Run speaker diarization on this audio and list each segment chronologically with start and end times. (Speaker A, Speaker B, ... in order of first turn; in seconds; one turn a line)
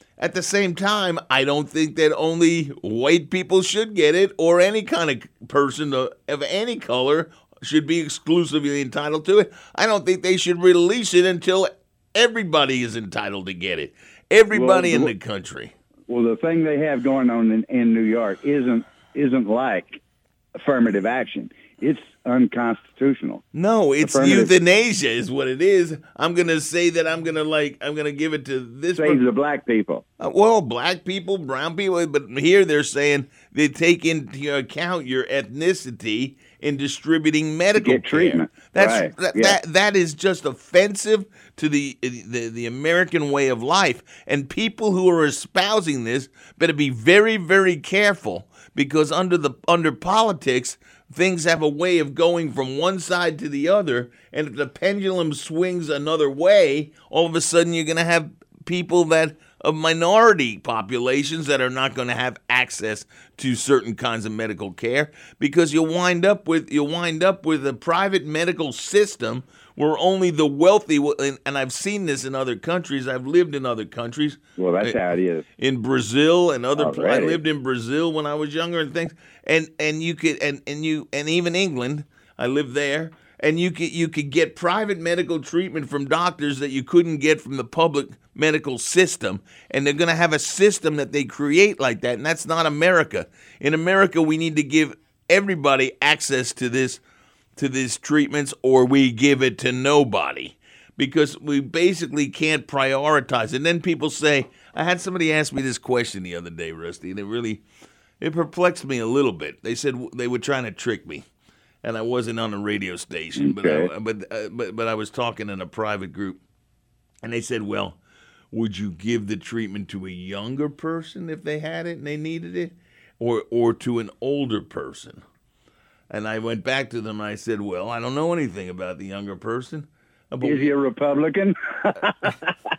Speaker A: 0.2-15.7
Speaker B: 14.5-15.1
Speaker B: 16.1-20.0
Speaker B: 20.6-23.4
Speaker A: 23.5-29.2
Speaker B: 24.0-24.5
Speaker B: 28.9-30.0
Speaker A: 30.2-97.0
Speaker B: 37.7-39.6
Speaker B: 74.6-75.4
Speaker B: 76.8-77.4
Speaker A: 97.6-107.6
Speaker A: 108.2-111.2
Speaker A: 111.8-116.4
Speaker B: 113.4-113.9
Speaker A: 117.2-118.0
Speaker A: 118.5-125.2
Speaker A: 126.1-130.8
Speaker B: 130.4-132.3